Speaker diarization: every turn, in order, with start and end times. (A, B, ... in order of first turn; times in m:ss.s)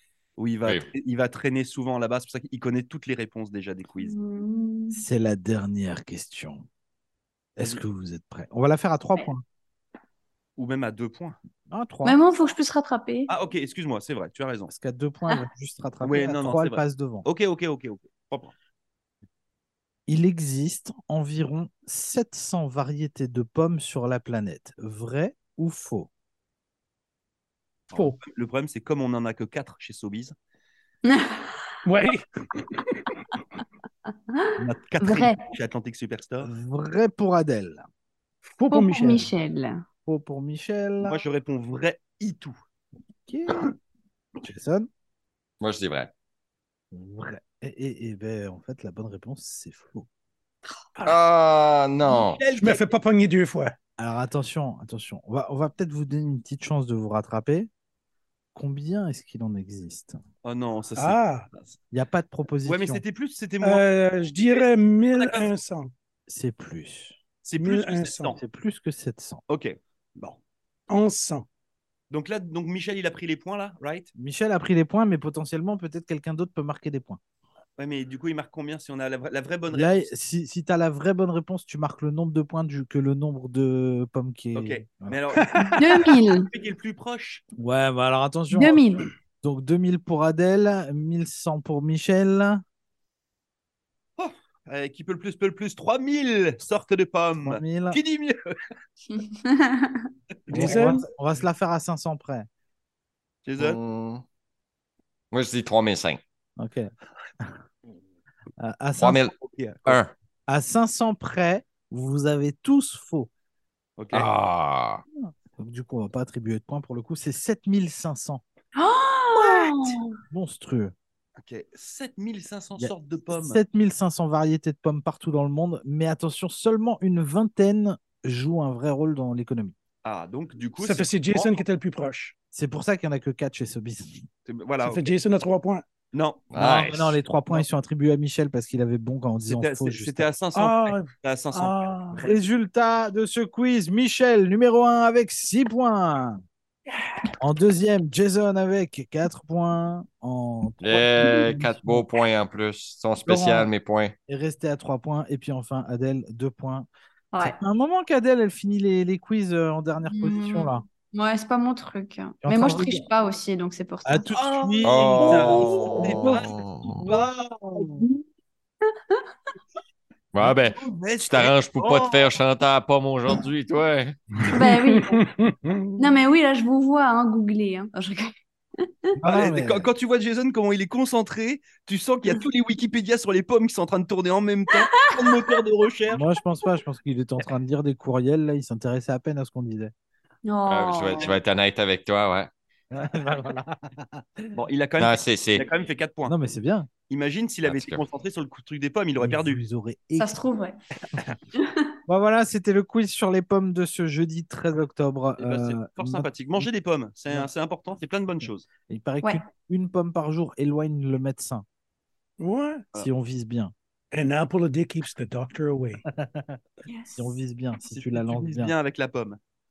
0:00.4-0:04.1 A
0:04.0-0:05.0 B
0:04.9-0:06.6 C
0:07.6-0:09.4 C
0:10.6-0:11.4 A
0:11.7-0:12.2 C
0:12.0-0:13.3 B
0:13.3-0:14.7 A
0:14.7-0:17.3 C
0:16.0-0:18.5 A
0:20.1-0:26.1 C
0:27.9-0:30.3 A
0:31.0-0:31.6 B
0:31.8-0:33.1 D
0:34.6-0:36.5 A
0:35.0-0:35.4 B
0:36.4-0:37.8 C
0:38.5-0:39.3 D
0:38.7-0:39.8 B
0:40.0-0:41.2 C
0:41.0-0:42.6 A
0:43.2-0:43.7 C
0:44.4-0:44.9 C
0:45.6-0:46.1 E
0:46.9-0:50.1 C
0:51.0-0:52.5 E
0:52.1-0:52.9 A
0:52.6-0:53.7 D
0:54.0-0:57.7 C
0:58.5-1:00.2 C
1:00.4-1:01.7 A
1:01.0-1:01.5 D
1:01.9-1:03.0 C
1:02.6-1:03.8 A
1:03.6-1:05.9 D
1:04.5-1:05.5 A
1:06.3-1:07.2 C
1:07.4-1:08.4 A
1:07.6-1:08.4 D
1:08.3-1:09.4 C
1:09.5-1:10.4 A
1:10.9-1:11.5 D
1:12.1-1:14.1 A
1:14.2-1:17.2 C
1:17.8-1:20.1 A
1:19.7-1:25.2 C
1:24.5-1:27.4 A
1:25.3-1:26.1 D
1:25.7-1:26.5 B
1:27.6-1:28.8 C
1:28.5-1:29.1 B
1:29.4-1:32.6 C
1:34.2-1:38.5 A
1:37.4-1:38.0 C
1:39.1-1:40.0 B
1:40.4-1:41.0 A
1:40.5-1:41.1 D
1:40.5-1:42.5 C
1:43.4-1:43.8 A
1:43.6-1:44.2 E
1:45.3-1:46.2 E
1:46.6-1:46.9 C
1:48.6-1:49.3 C
1:49.0-1:49.3 E
1:49.3-1:50.0 A
1:50.5-1:53.3 C
1:54.0-1:54.3 A
1:54.1-1:55.0 E
1:55.2-1:58.4 C
1:58.7-2:00.1 B
1:59.3-2:00.0 A
2:00.3-2:00.9 C
2:01.4-2:03.6 A
2:02.8-2:09.7 C
2:10.0-2:11.6 A
2:10.8-2:12.3 D
2:12.5-2:14.2 C
2:14.4-2:15.1 A
2:14.8-2:15.8 D
2:16.1-2:16.4 A
2:16.5-2:17.2 E
2:16.5-2:20.4 C
2:19.4-2:22.4 A
2:20.5-2:22.2 D
2:22.1-2:26.4 C
2:27.4-2:32.0 C
2:30.8-2:34.1 E
2:33.2-2:33.7 C
2:34.3-2:36.9 C
2:37.3-2:37.6 B
2:37.4-2:40.8 C
2:40.0-2:44.3 B
2:42.4-2:43.1 C
2:44.0-2:47.3 C
2:44.3-2:47.8 A
2:44.8-2:47.1 E
2:50.3-2:54.2 E
2:50.4-2:52.3 A
2:54.5-2:55.2 B
2:54.6-2:56.1 D
2:56.0-2:58.3 B
2:59.2-2:59.9 C
2:59.2-3:06.2 A
3:06.1-3:09.9 C
3:10.4-3:11.3 B
3:10.7-3:12.5 E
3:11.1-3:11.4 A
3:12.9-3:14.5 C
3:14.5-3:16.3 A
3:15.0-3:15.7 E
3:16.2-3:16.9 C
3:17.1-3:19.6 A
3:17.6-3:18.0 E
3:19.2-3:20.4 C
3:20.2-3:20.8 B
3:22.1-3:26.7 C
3:25.4-3:28.6 A
3:28.9-3:31.6 C
3:32.4-3:32.8 D
3:32.9-3:33.7 C
3:34.1-3:36.0 D
3:36.1-3:36.6 C
3:36.9-3:37.3 B
3:37.2-3:38.7 C
3:37.9-3:39.4 A